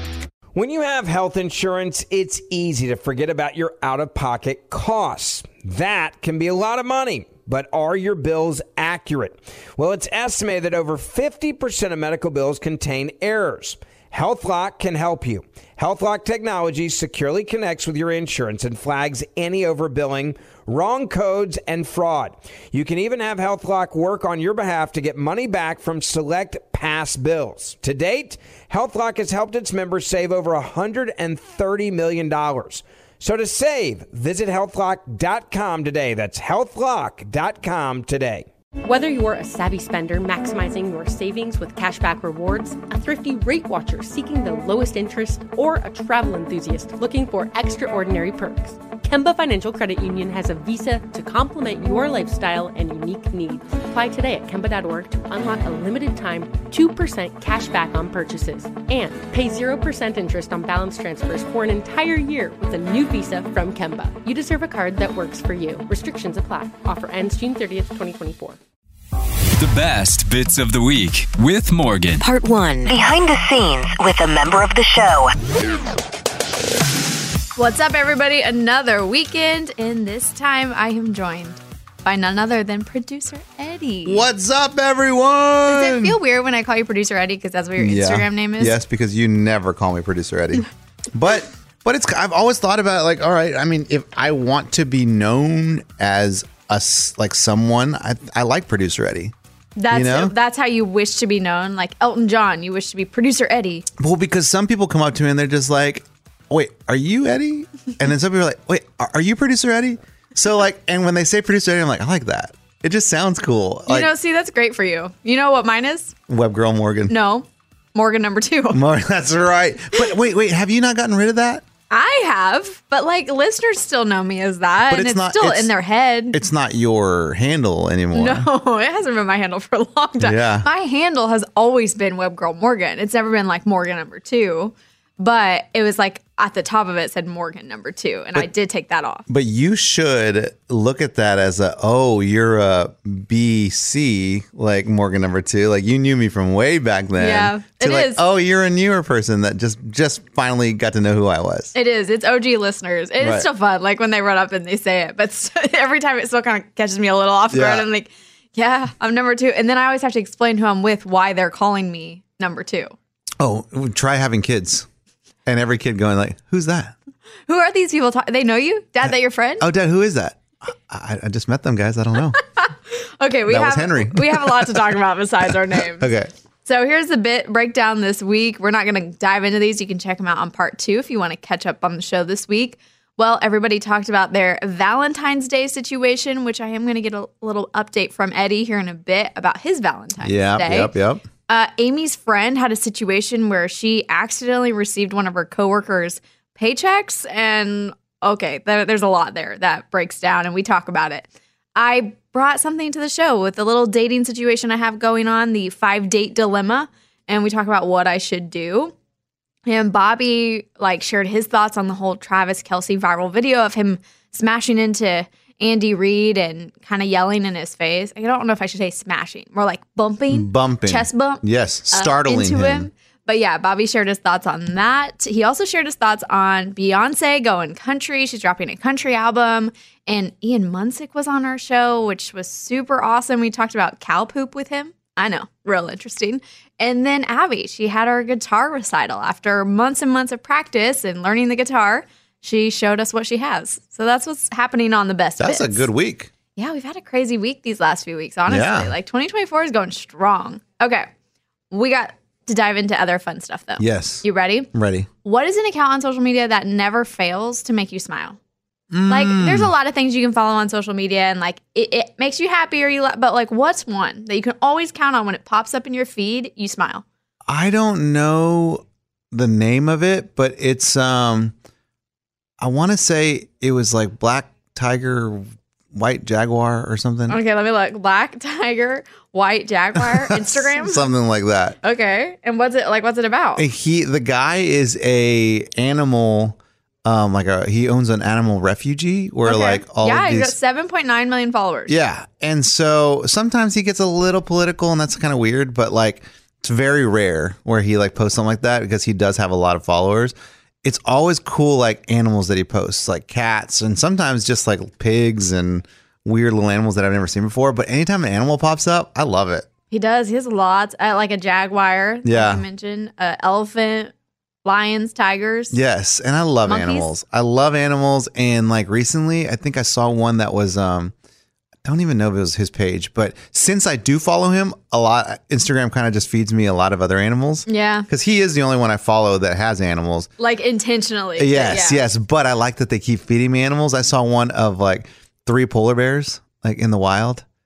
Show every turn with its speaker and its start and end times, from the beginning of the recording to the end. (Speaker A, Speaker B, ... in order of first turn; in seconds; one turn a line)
Speaker A: 0.5-38.5
Speaker B: 38.8-68.6
Speaker C: 69.5-72.2
Speaker D: 72.2-75.3
Speaker E: 77.5-84.2
Speaker F: 84.0-86.2
Speaker E: 85.7-88.8
Speaker F: 87.8-99.3
Speaker E: 99.8-103.9
Speaker F: 99.9-100.3
Speaker F: 104.0-114.1
Speaker E: 113.9-116.1
Speaker F: 116.3-117.1
Speaker E: 117.1-118.8
Speaker F: 118.7-121.6
Speaker E: 121.9-126.4
Speaker F: 124.9-125.7
Speaker F: 126.3-128.5
Speaker E: 128.1-139.2
Speaker F: 130.2-130.7
Speaker F: 139.3-151.7
Speaker E: 147.2-148.2
Speaker E: 151.7-162.9
Speaker F: 153.2-153.5
Speaker F: 157.5-157.9
Speaker F: 163.4-164.9
Speaker F: 165.4-166.9
Speaker E: 167.5-169.7
Speaker F: 169.6-172.4
Speaker E: 172.6-176.1
Speaker F: 173.5-174.8
Speaker F: 175.4-176.3
Speaker E: 176.6-190.9
Speaker F: 190.2-191.2
Speaker E: 191.5-208.9
Speaker E: 209.7-245.9
Speaker F: 220.3-222.9
Speaker F: 245.4-246.3
Speaker E: 246.6-251.1
Speaker F: 248.5-248.9
Speaker E: 251.7-254.7
Speaker F: 253.8-255.1
Speaker E: 255.2-258.4
Speaker F: 258.9-259.7
Speaker E: 259.1-267.0
Speaker F: 267.5-271.5
Speaker F: 272.6-277.4
Speaker E: 277.3-281.1
Speaker F: 279.9-281.8
Speaker E: 281.8-283.6
Speaker F: 283.6-290.6
Speaker E: 289.4-291.9
Speaker F: 291.9-309.7
Speaker E: 309.9-314.1
Speaker F: 312.2-312.6
Speaker E: 314.6-315.8
Speaker F: 315.7-321.1
Speaker E: 316.6-317.1
Speaker F: 321.8-330.3
Speaker E: 327.7-328.1
Speaker E: 330.4-332.1
Speaker F: 331.4-337.4